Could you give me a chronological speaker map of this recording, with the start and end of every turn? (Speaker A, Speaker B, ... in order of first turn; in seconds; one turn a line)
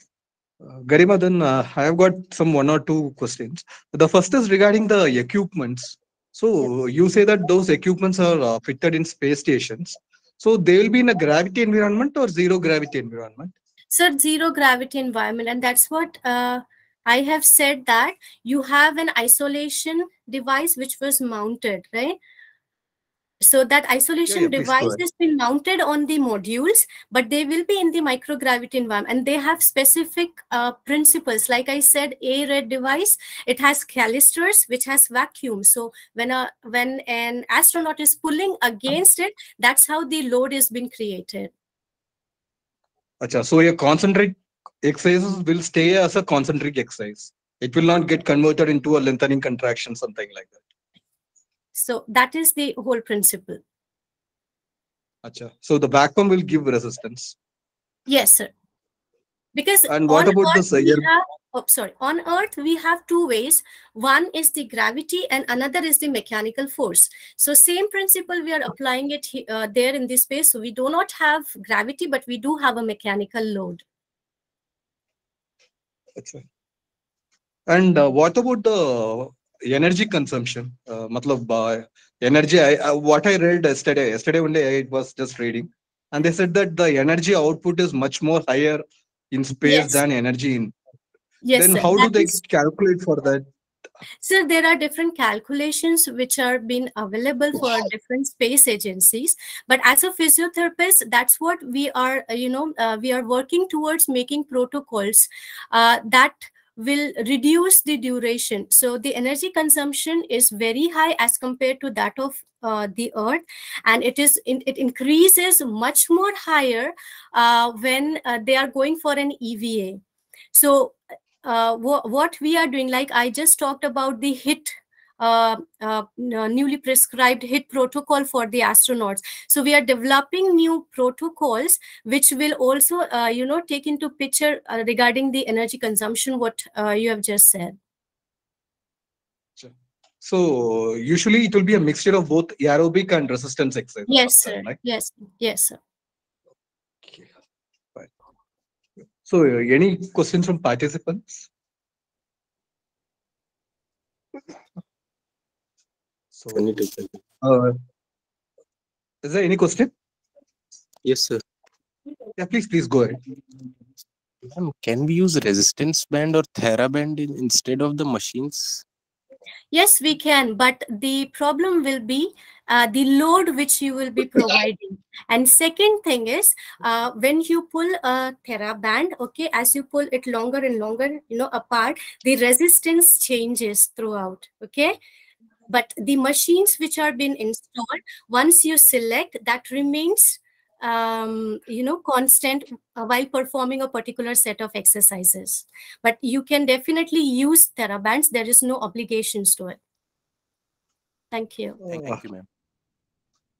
Speaker A: 0.6-13.5
Speaker B: 13.9-22.2
Speaker B: 23.4-41.5
Speaker A: 24.3-25.0
Speaker A: 43.2-50.6
Speaker B: 51.7-53.6
Speaker A: 55.2-57.4
Speaker B: 58.1-58.5
Speaker B: 59.5-73.8
Speaker A: 59.9-61.1
Speaker A: 76.2-76.4
Speaker A: 77.7-90.7
Speaker B: 89.6-90.0
Speaker B: 91.4-92.3
Speaker A: 91.5-93.5
Speaker B: 94.2-120.0
Speaker B: 120.5-137.8
Speaker A: 139.6-144.8
Speaker B: 144.1-145.8
Speaker A: 147.0-147.3
Speaker A: 149.2-151.5
Speaker A: 156.3-156.7
Speaker C: 156.5-157.2
Speaker A: 157.4-157.8
Speaker A: 159.2-159.9
Speaker C: 161.0-161.4
Speaker A: 162.4-163.2
Speaker C: 164.4-168.8
Speaker B: 169.7-184.9
Speaker B: 185.7-199.8
Speaker B: 201.3-201.8
Speaker C: 201.9-202.4
Speaker A: 201.9-202.2